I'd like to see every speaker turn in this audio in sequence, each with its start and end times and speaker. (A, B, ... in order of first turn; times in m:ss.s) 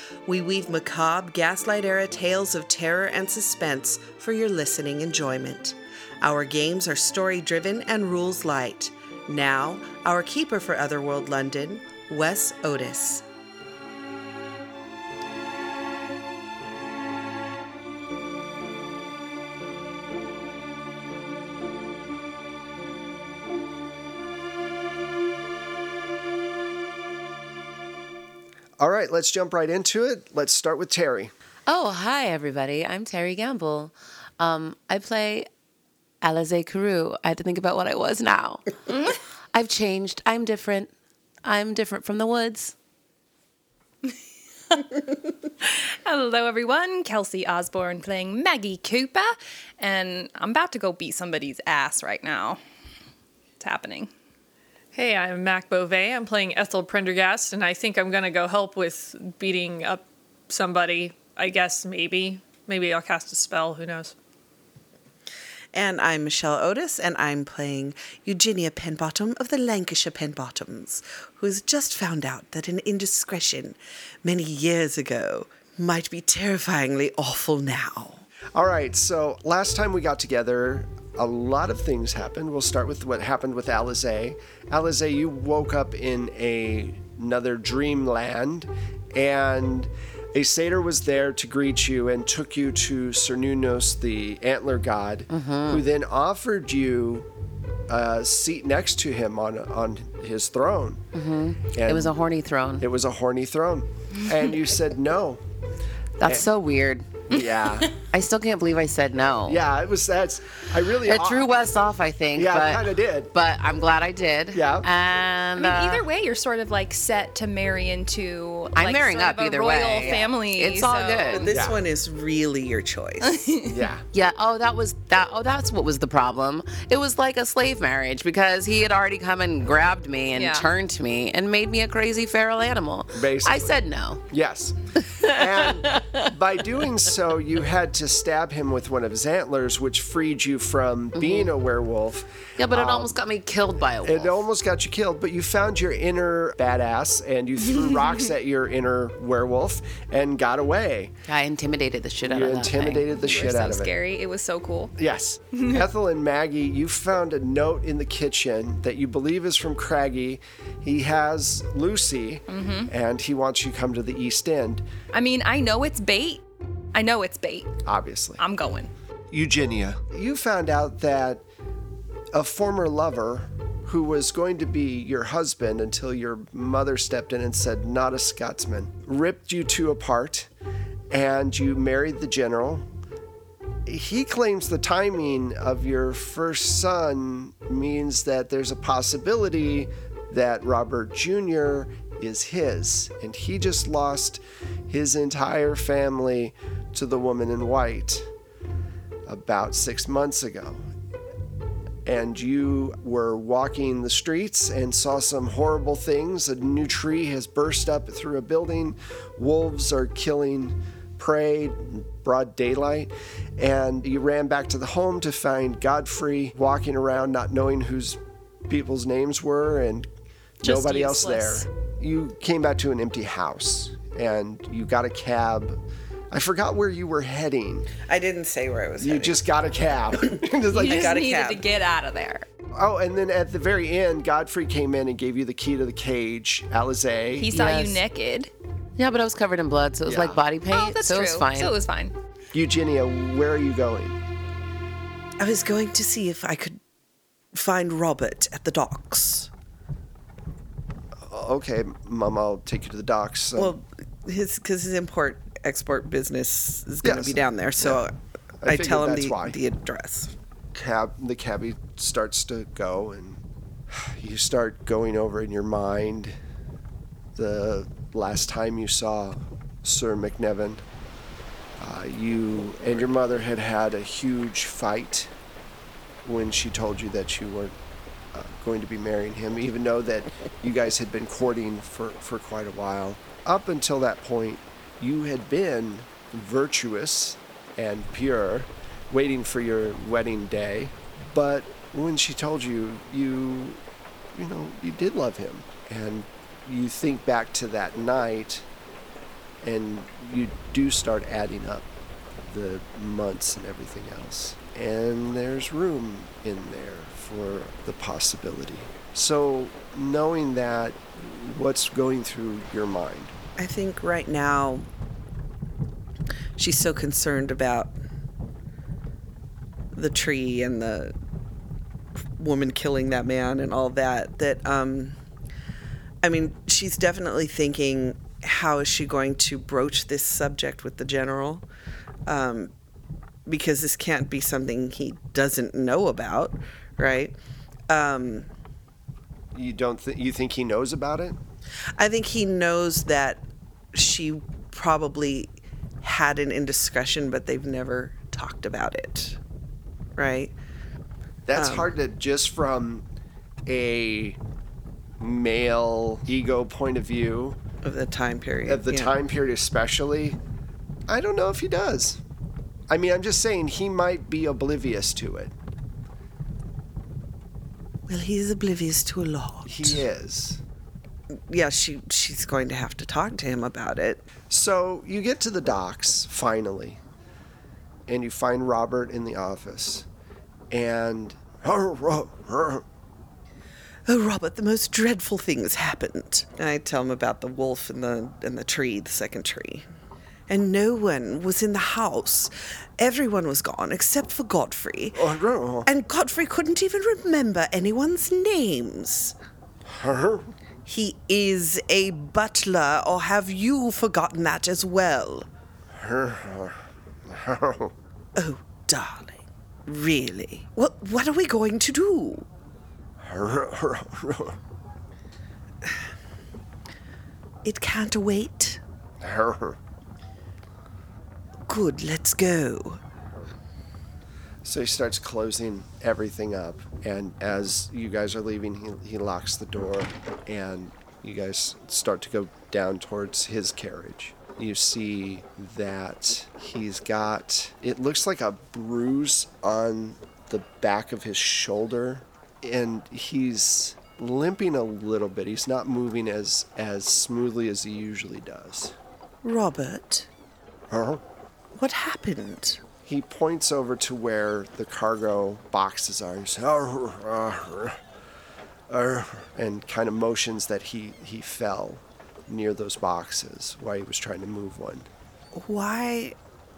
0:00.2-0:13.2 A
0:28.8-0:31.3 B
0:31.7-0:35.5 C
0:36.2-0:40.9 C
0:41.4-0:42.7 C
0:45.6-0:52.6 D
0:53.6-0:54.1 D
0:54.9-1:04.1 E
1:05.7-1:18.2 A
1:18.5-1:37.3 B
1:35.3-1:35.8 C
1:37.9-1:41.0 B
1:41.1-1:42.8 C
1:41.7-1:42.2 B
1:42.8-1:45.4 B
1:46.2-1:47.3 C
1:47.3-1:47.9 B
1:47.3-1:47.8 D
1:48.0-1:49.6 C
1:49.4-1:51.5 B
1:51.0-1:56.0 C
1:52.3-1:53.3 B
1:54.5-1:54.9 B
1:55.6-2:01.5 D
1:58.8-2:01.5 C
2:01.4-2:03.6 A
2:01.5-2:01.8 B
2:03.2-2:03.8 D
2:03.7-2:04.0 B
2:04.1-2:14.2 C
2:10.3-2:10.7 D
2:13.1-2:13.7 B
2:14.3-2:23.2 B
2:15.1-2:16.2 C
2:21.2-2:21.5 C
2:22.6-2:24.4 C
2:24.0-2:31.1 B
2:31.3-2:33.5 C
2:32.2-2:33.9 B
2:33.2-2:34.9 D
2:35.0-2:44.8 B
2:35.5-2:35.8 D
2:42.5-2:42.9 D
2:45.1-2:47.8 D
2:47.8-2:48.4 B
2:48.4-2:48.9 D
2:49.3-2:51.4 B
2:52.3-3:00.5 B
3:01.1-3:02.9 B
3:03.8-3:18.3 B
3:19.2-3:20.8 B
3:22.0-3:40.1 B
3:40.6-3:41.6 D
3:40.6-3:45.8 B
3:46.3-3:47.9 B
3:48.0-3:49.4 A
3:49.0-3:51.1 B
3:50.3-3:51.6 A
3:50.7-3:52.4 D
3:52.7-3:57.6 B
3:57.4-3:58.5 D
3:57.5-3:58.0 C
3:59.0-4:01.7 C
4:00.0-4:00.4 B
4:00.7-4:02.1 D
4:02.5-4:04.2 B
4:05.4-4:06.8 A
4:07.5-4:09.5 A
4:11.2-4:13.7 B
4:13.6-4:18.1 A
4:17.0-4:18.0 B
4:18.6-4:19.6 B
4:18.6-4:20.3 A
4:20.7-4:26.3 B
4:27.4-4:30.8 B
4:31.8-4:35.3 B
4:36.2-4:37.8 B
4:38.3-4:53.8 B
4:54.3-4:58.6 B
4:59.6-5:01.9 B
5:02.4-5:13.3 B
5:13.6-5:14.9 A
5:16.6-5:18.0 A
5:19.9-5:21.1 A
5:22.4-5:25.2 A
5:26.2-5:31.6 A
5:32.3-5:32.7 A
5:33.4-5:37.4 A
5:37.9-5:38.5 A
5:39.5-5:41.4 B
5:42.0-5:49.4 A
5:50.2-5:50.5 A
5:51.5-5:53.0 B
5:51.5-5:51.9 A
5:53.7-5:54.4 B
5:55.2-5:57.6 B
5:57.8-5:59.1 A
5:58.6-6:00.4 B
6:01.1-6:02.2 B
6:02.9-6:05.5 B
6:08.1-6:10.0 A
6:09.6-6:10.6 B
6:11.5-6:14.2 A
6:14.5-6:17.0 B
6:18.1-6:20.0 B
6:20.7-6:22.8 B
6:24.1-6:29.8 A
6:30.5-6:35.2 A
6:35.1-6:35.9 B
6:35.8-6:39.3 A
6:39.8-6:40.5 B
6:40.8-6:45.5 A
6:45.9-6:47.9 B
6:48.4-6:52.5 A
6:53.2-6:54.6 B
6:57.6-6:58.8 A
6:59.2-6:59.8 B
7:01.7-7:03.0 A
7:04.6-7:28.9 B
7:29.4-7:30.3 A
7:30.9-7:31.2 B
7:31.7-7:32.8 A
7:33.0-7:38.0 B
7:38.9-7:45.1 B
7:45.5-7:46.4 A